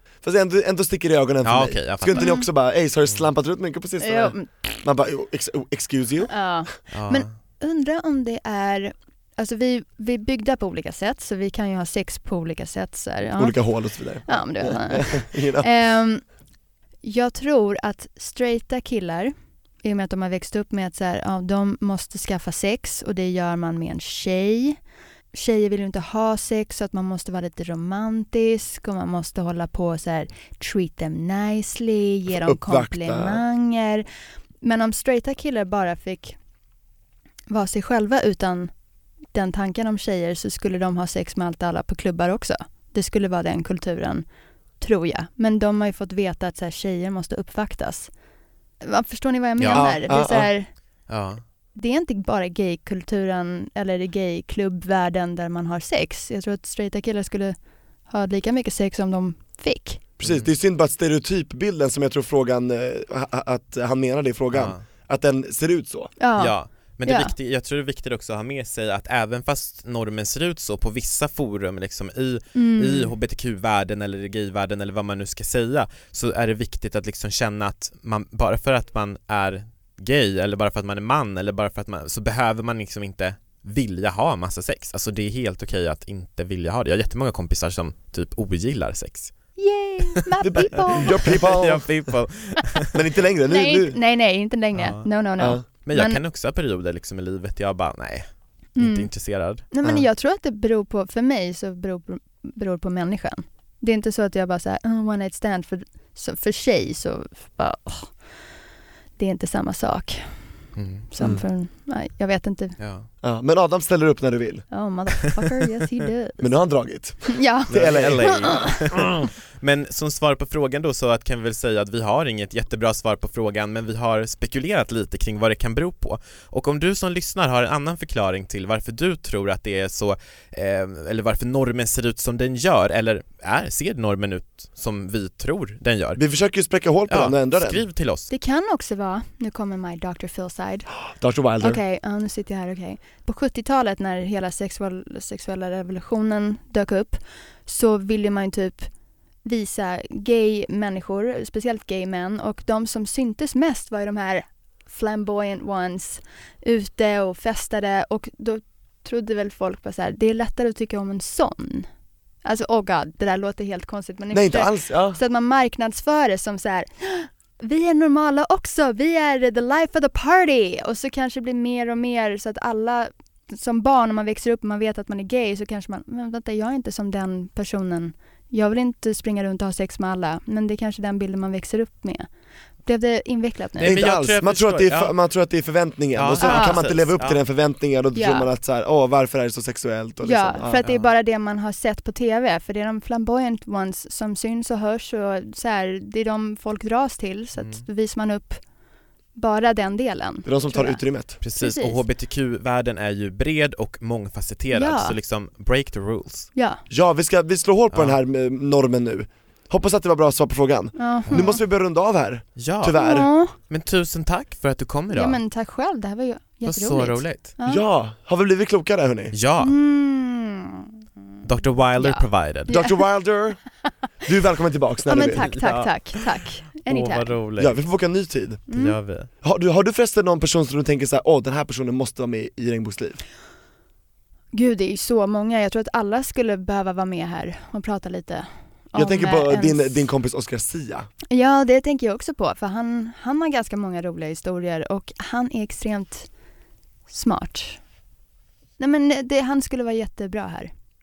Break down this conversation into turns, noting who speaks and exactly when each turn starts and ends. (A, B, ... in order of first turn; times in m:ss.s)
0:00.2-0:06.3 A
0:01.4-0:02.3 B
0:02.1-0:02.4 C
0:04.0-0:04.8 C
0:06.3-0:13.7 C
0:06.9-0:07.3 B
0:13.4-0:15.7 A
0:14.2-0:16.3 C
0:17.0-0:24.8 C
0:25.3-0:34.0 C
0:32.3-0:33.4 A
0:34.6-0:36.4 C
0:37.5-0:38.7 C
0:39.3-0:44.2 C
0:44.8-0:48.1 C
0:48.8-0:50.7 C
0:49.6-0:50.0 B
0:49.7-0:50.5 A
0:51.1-0:51.4 B
0:51.7-1:00.0 C
1:00.2-1:06.1 A
1:00.2-1:00.5 B
1:04.5-1:04.8 B
1:06.2-1:06.5 C
1:06.4-1:29.3 B
1:07.0-1:07.3 C
1:12.5-1:13.1 C
1:29.6-1:31.2 C
1:30.4-1:32.0 A
1:31.1-1:32.9 B
1:32.9-1:34.0 A
1:33.5-1:36.2 C
1:34.7-1:35.1 B
1:35.7-1:39.9 B
1:38.8-1:39.1 C
1:39.7-1:48.2 C
1:49.2-1:52.8 C
1:50.8-1:51.1 B
1:52.8-1:53.1 B
1:53.2-1:54.7 A
1:54.7-1:56.6 C
1:56.4-1:58.6 A
1:57.3-1:58.8 C
1:57.7-2:16.2 B
2:16.2-2:17.8 A
2:17.1-2:18.3 B
2:18.3-2:20.9 C
2:21.1-2:21.8 A
2:21.6-2:28.9 C
2:29.4-2:41.9 C
2:42.4-3:02.3 C
2:44.3-2:45.2 A
3:02.8-3:04.0 C
3:03.8-3:05.1 B
3:03.8-3:10.8 A
3:06.2-3:07.4 B
3:06.4-3:06.8 C
3:08.1-3:08.5 C
3:10.2-3:18.6 C
3:17.6-3:17.8 B
3:19.3-3:21.0 C
3:20.4-3:21.4 A
3:21.4-3:26.5 B
3:21.5-3:22.0 C
3:24.7-3:25.2 C
3:26.5-3:26.8 C
3:26.9-3:33.3 A
3:27.9-3:28.2 B
3:31.0-3:31.6 C
3:32.6-3:33.0 B
3:33.0-3:33.5 C
3:33.5-3:35.4 B
3:35.1-3:37.8 C
3:36.6-3:37.5 B
3:37.6-3:39.3 A
3:39.3-3:39.7 B
3:39.6-3:40.9 C
3:41.4-3:42.8 B
3:42.0-3:43.0 C
3:42.7-3:43.6 A
3:44.2-3:45.5 A
3:45.1-3:47.3 C
3:45.4-3:47.8 B
3:47.6-3:48.7 A
3:48.7-3:49.0 C
3:48.7-3:49.3 B
3:49.4-3:53.2 A
3:54.5-4:00.0 C
3:58.9-4:01.1 A
4:01.3-4:06.3 C
4:07.1-4:07.8 C
4:08.8-4:10.7 C